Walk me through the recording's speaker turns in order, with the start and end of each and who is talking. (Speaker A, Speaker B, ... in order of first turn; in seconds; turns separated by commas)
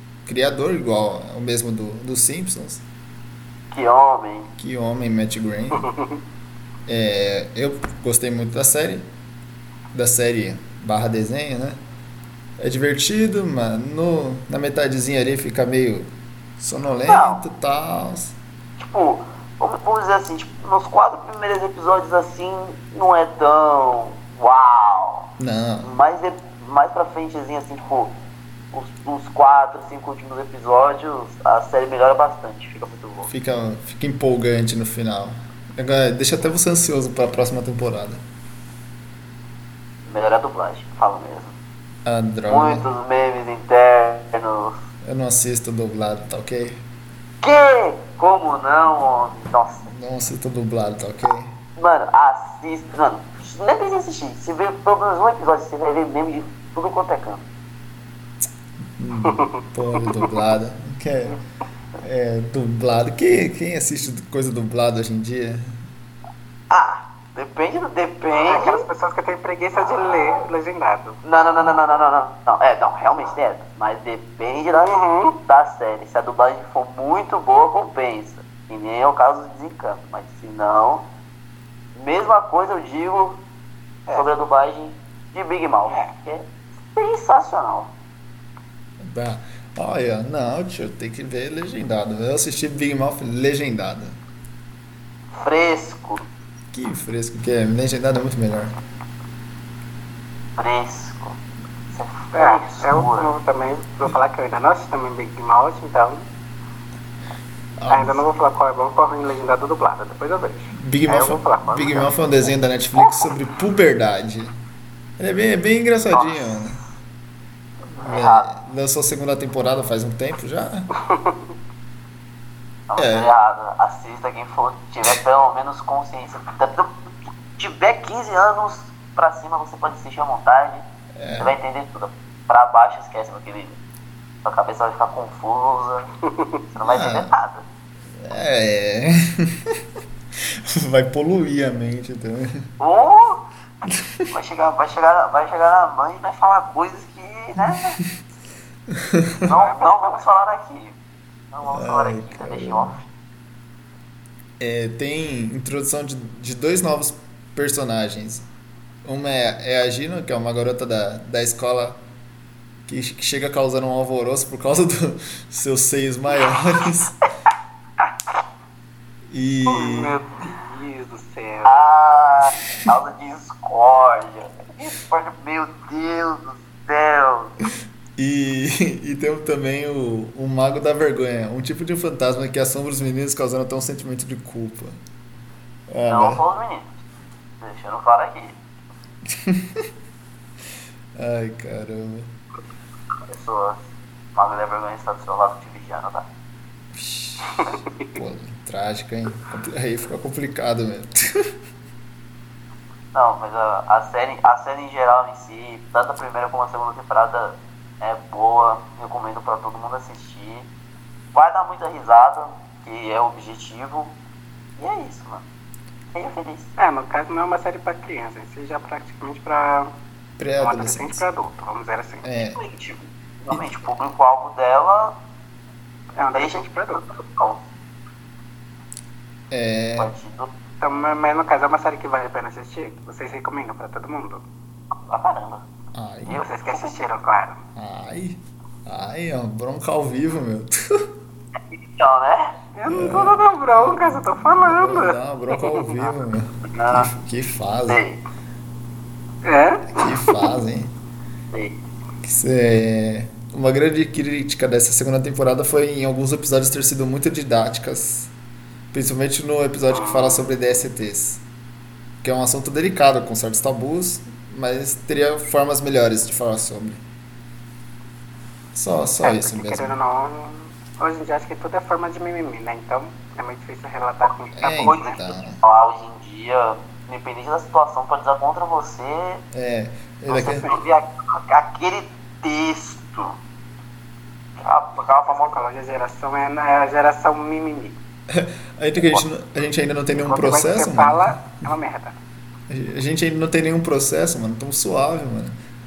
Speaker A: 0.3-2.8, Speaker B: 3.7-4.5, Speaker A: 4.5-5.9, Speaker A: 6.9-9.1, Speaker A: 9.9-11.8, Speaker A: 12.6-18.4, Speaker B: 17.1-17.4, Speaker B: 18.8-25.3, Speaker A: 25.4-25.9, Speaker B: 25.8-28.2, Speaker B: 28.7-33.3, Speaker A: 33.3-38.2, Speaker B: 40.1-41.6, Speaker A: 42.0-42.9, Speaker B: 42.5-44.8, Speaker A: 45.0-46.8, Speaker B: 47.4-49.9, Speaker A: 49.9-51.5, Speaker B: 51.8-57.4, Speaker A: 59.0-61.4, Speaker A: 62.0-65.8, Speaker B: 66.7-68.9, Speaker C: 68.5-71.2, Speaker B: 71.2-81.1, Speaker C: 74.8-75.4, Speaker B: 82.0-83.4, Speaker C: 84.1-84.3, Speaker B: 84.1-87.9, Speaker A: 89.0-94.2, Speaker B: 95.3-96.3, Speaker A: 96.7-98.7, Speaker B: 100.6-101.4, Speaker C: 102.0-106.2, Speaker B: 102.3-103.3, Speaker A: 107.8-108.2, Speaker C: 107.9-112.1, Speaker A: 110.8-114.5, Speaker A: 115.2-116.8, Speaker B: 116.1-116.9, Speaker B: 117.9-118.5, Speaker A: 118.0-120.9, Speaker C: 121.1-121.4, Speaker B: 122.9-127.0, Speaker A: 123.0-123.3, Speaker B: 127.5-130.8, Speaker A: 131.2-131.6, Speaker B: 131.4-133.8, Speaker B: 134.4-136.1, Speaker B: 136.7-137.7, Speaker A: 136.8-137.3, Speaker A: 138.1-139.8, Speaker A: 140.4-142.7, Speaker B: 142.8-143.4, Speaker A: 143.9-144.2, Speaker B: 144.3-148.0, Speaker A: 147.7-148.1, Speaker A: 148.9-149.5, Speaker B: 149.4-151.0, Speaker C: 149.5-150.2, Speaker B: 151.5-153.0, Speaker A: 151.7-153.0, Speaker A: 154.6-158.5, Speaker A: 159.0-162.0, Speaker A: 162.9-167.2, Speaker A: 169.3-170.2, Speaker C: 169.7-171.9, Speaker B: 171.6-177.5, Speaker A: 178.2-185.0, Speaker A: 185.9-186.4, Speaker B: 186.1-187.0, Speaker B: 187.6-188.6, Speaker A: 189.3-189.9, Speaker A: 191.2-192.3, Speaker B: 193.3-193.8, Speaker B: 194.3-196.3, Speaker A: 196.9-201.5, Speaker B: 197.6-197.9, Speaker B: 203.1-210.7, Speaker B: 211.3-214.2, Speaker B: 214.8-215.4, Speaker B: 216.1-216.7, Speaker C: 216.8-219.9, Speaker A: 220.4-221.2, Speaker C: 220.6-222.3, Speaker A: 222.2-222.6, Speaker B: 222.6-225.2, Speaker C: 226.2-227.0, Speaker B: 226.2-227.6, Speaker A: 229.5-230.1, Speaker B: 230.0-230.5, Speaker C: 230.8-234.4, Speaker B: 235.1-235.6, Speaker A: 235.9-236.4, Speaker B: 236.3-237.1, Speaker C: 236.4-237.6, Speaker A: 237.8-241.1, Speaker B: 241.7-242.6, Speaker C: 242.8-246.1, Speaker A: 242.9-248.0, Speaker B: 246.7-247.1, Speaker B: 247.9-248.2, Speaker C: 249.4-250.5, Speaker A: 250.0-250.9, Speaker B: 251.5-251.8, Speaker A: 252.2-258.3, Speaker A: 258.9-261.4, Speaker C: 259.9-260.5, Speaker A: 262.2-267.0, Speaker A: 268.8-270.0, Speaker C: 269.2-275.2, Speaker A: 274.6-275.6, Speaker B: 274.8-279.4, Speaker A: 279.5-280.7, Speaker B: 280.3-283.4, Speaker C: 280.4-280.8, Speaker B: 284.6-285.6, Speaker C: 285.0-288.0, Speaker A: 288.3-291.7, Speaker C: 290.2-292.1, Speaker A: 292.7-295.6